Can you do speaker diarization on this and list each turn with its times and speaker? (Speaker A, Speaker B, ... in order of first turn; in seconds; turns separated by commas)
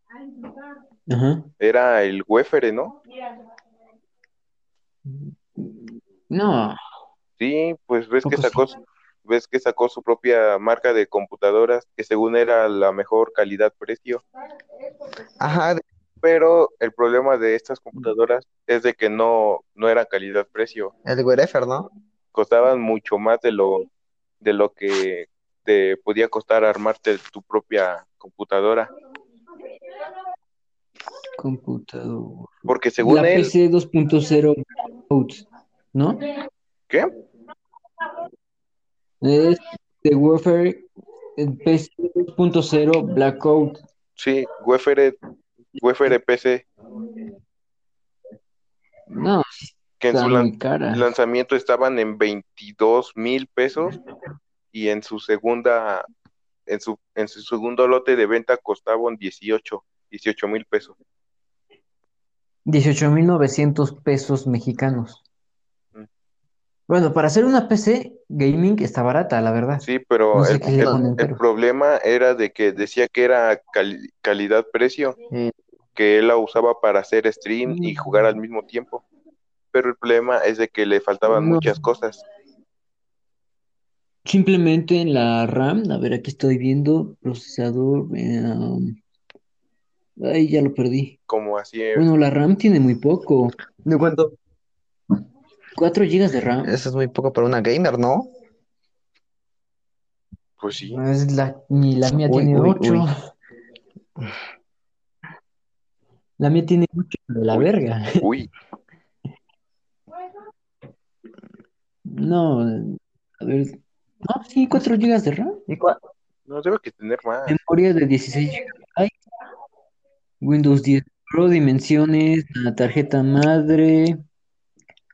Speaker A: 1.1-1.5, Speaker B: 1.6-3.0, Speaker A: 5.6-6.8, Speaker B: 7.4-8.7, Speaker A: 8.2-8.7, Speaker B: 9.2-14.2, Speaker C: 15.4-15.8, Speaker B: 16.2-20.9, Speaker C: 21.1-21.9, Speaker B: 22.3-23.9, Speaker B: 24.4-28.9, Speaker A: 31.4-36.2, Speaker B: 32.7-33.5, Speaker A: 39.2-43.8, Speaker B: 44.2-45.2, Speaker B: 45.8-46.7, Speaker A: 49.1-51.1, Speaker B: 50.0-54.0, Speaker B: 54.7-56.1, Speaker B: 56.7-61.0, Speaker A: 62.7-65.2, Speaker A: 66.9-71.4, Speaker B: 69.8-75.2, Speaker C: 70.8-71.0, Speaker B: 76.0-79.0, Speaker A: 77.7-78.3, Speaker B: 79.7-82.2, Speaker A: 81.3-81.8, Speaker A: 84.2-89.0, Speaker A: 90.2-91.2, Speaker B: 91.3-92.1, Speaker A: 92.0-93.5, Speaker C: 93.8-94.3, Speaker A: 95.8-96.7, Speaker C: 96.6-98.3, Speaker B: 100.6-101.0, Speaker A: 100.9-103.1, Speaker C: 102.1-103.1, Speaker A: 106.4-108.2, Speaker B: 107.5-108.5, Speaker A: 112.1-115.6, Speaker C: 115.7-116.0, Speaker B: 116.5-117.6, Speaker A: 117.5-119.2, Speaker A: 120.4-124.2